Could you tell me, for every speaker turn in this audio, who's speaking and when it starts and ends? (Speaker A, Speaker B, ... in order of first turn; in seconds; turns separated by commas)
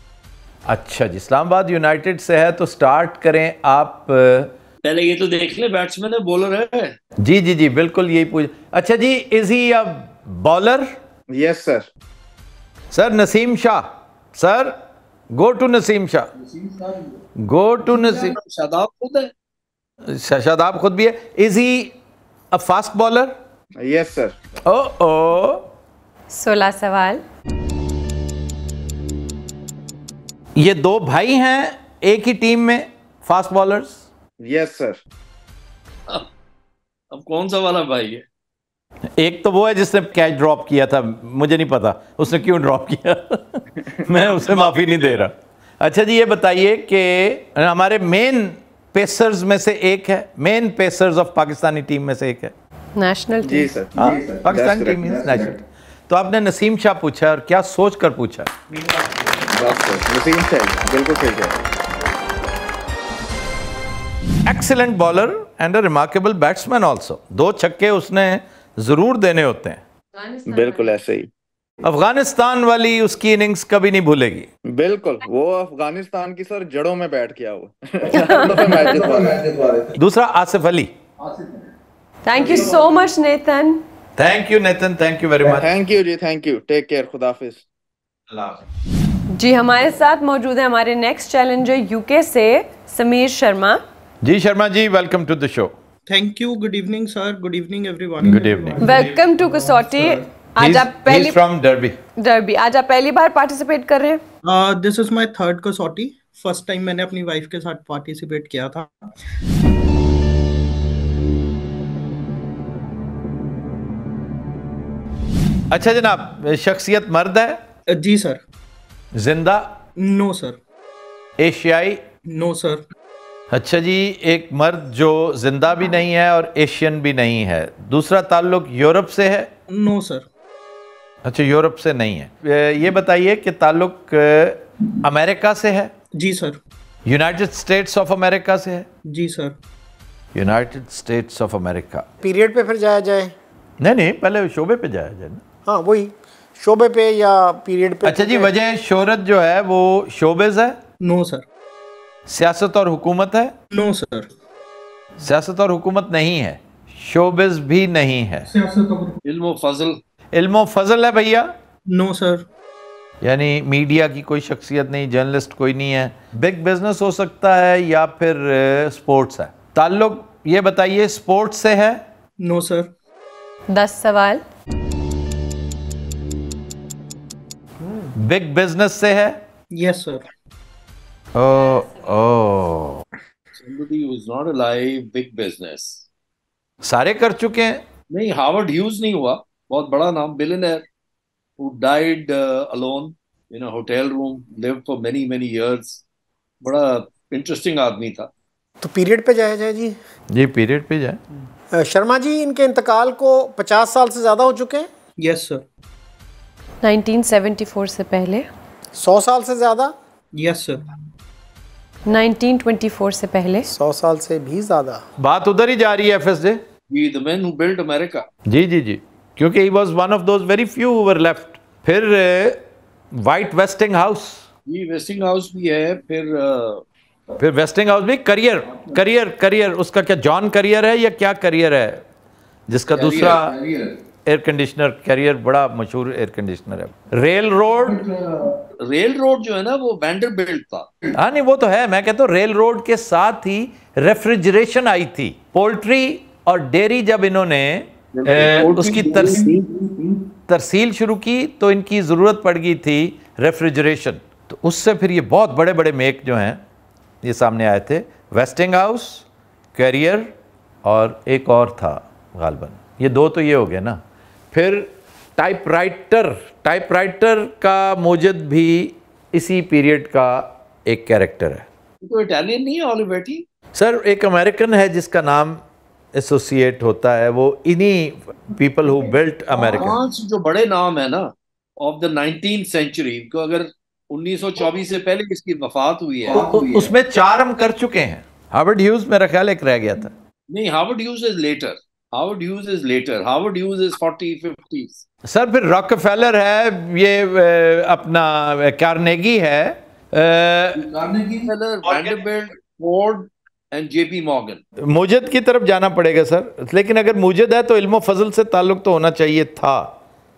Speaker A: 0.7-4.5, Speaker B: 4.8-7.0, Speaker A: 7.2-11.0, Speaker C: 11.3-11.9, Speaker A: 12.9-14.8, Speaker A: 15.3-16.3, Speaker B: 16.5-17.0, Speaker A: 17.4-18.4, Speaker B: 17.9-19.3, Speaker A: 20.1-21.9, Speaker A: 22.5-23.3, Speaker C: 23.8-24.4, Speaker A: 24.6-25.7, Speaker D: 26.3-27.2, Speaker A: 30.6-34.0, Speaker C: 34.4-35.0, Speaker B: 37.1-38.2, Speaker A: 39.2-52.5, Speaker C: 43.8-44.6, Speaker B: 44.5-45.2, Speaker D: 53.0-53.7, Speaker C: 53.4-55.6, Speaker A: 54.0-58.5, Speaker C: 59.4-61.6, Speaker A: 64.5-69.8, Speaker D: 70.2-70.9, Speaker C: 70.5-71.3, Speaker A: 71.8-74.5, Speaker C: 74.7-79.9, Speaker D: 78.1-79.2, Speaker A: 80.0-80.9, Speaker D: 82.2-83.8, Speaker A: 84.2-85.8, Speaker C: 85.4-87.7, Speaker A: 88.3-88.6, Speaker D: 89.3-93.8, Speaker A: 94.2-95.7, Speaker E: 96.1-100.3, Speaker A: 98.2-99.1, Speaker D: 98.8-101.4, Speaker A: 100.6-102.0, Speaker D: 102.2-104.2, Speaker E: 104.5-109.1, Speaker A: 115.7-117.6, Speaker E: 117.9-118.4, Speaker A: 119.1-119.8, Speaker E: 120.0-120.6, Speaker A: 121.4-122.0, Speaker E: 122.3-122.8, Speaker A: 123.5-129.5, Speaker E: 129.7-130.3, Speaker A: 131.2-135.9, Speaker E: 136.2-136.6, Speaker A: 137.1-138.9, Speaker E: 139.1-139.6, Speaker A: 140.3-142.1, Speaker F: 142.2-143.3, Speaker A: 143.8-145.4, Speaker F: 145.7-148.5, Speaker A: 148.1-150.8, Speaker E: 151.0-151.5, Speaker A: 152.3-153.5, Speaker E: 153.7-154.3, Speaker A: 155.2-158.5, Speaker E: 158.5-159.2, Speaker B: 159.2-160.0, Speaker A: 160.3-161.5, Speaker E: 161.9-162.4, Speaker A: 163.2-172.0, Speaker E: 172.4-172.9, Speaker D: 173.7-174.4, Speaker A: 178.2-179.4, Speaker E: 179.7-180.3, Speaker A: 181.3-183.0, Speaker B: 183.5-186.1, Speaker A: 186.8-187.8, Speaker B: 188.1-190.8, Speaker B: 191.6-196.0, Speaker B: 196.6-198.3, Speaker F: 198.8-200.0, Speaker A: 200.3-201.2, Speaker F: 201.7-204.9, Speaker E: 205.2-205.6, Speaker D: 206.8-208.5, Speaker F: 208.9-209.9, Speaker E: 210.4-210.8, Speaker D: 212.1-213.7, Speaker F: 213.7-215.0, Speaker A: 215.2-216.6, Speaker B: 216.9-218.3, Speaker A: 218.5-222.6, Speaker A: 223.1-224.4, Speaker B: 224.7-226.8, Speaker A: 227.4-232.0, Speaker A: 232.7-233.6, Speaker B: 232.9-233.9, Speaker A: 234.3-238.1, Speaker B: 237.9-241.1, Speaker A: 241.2-249.5, Speaker B: 248.1-250.1, Speaker A: 250.5-256.6, Speaker A: 257.2-260.3, Speaker A: 260.8-271.6, Speaker B: 272.0-273.4, Speaker A: 273.8-275.6, Speaker A: 276.1-280.0, Speaker B: 279.7-286.9, Speaker A: 286.3-290.1, Speaker B: 290.5-295.1, Speaker A: 295.3-300.9, Speaker B: 300.8-304.6, Speaker A: 301.8-302.2, Speaker A: 304.8-309.9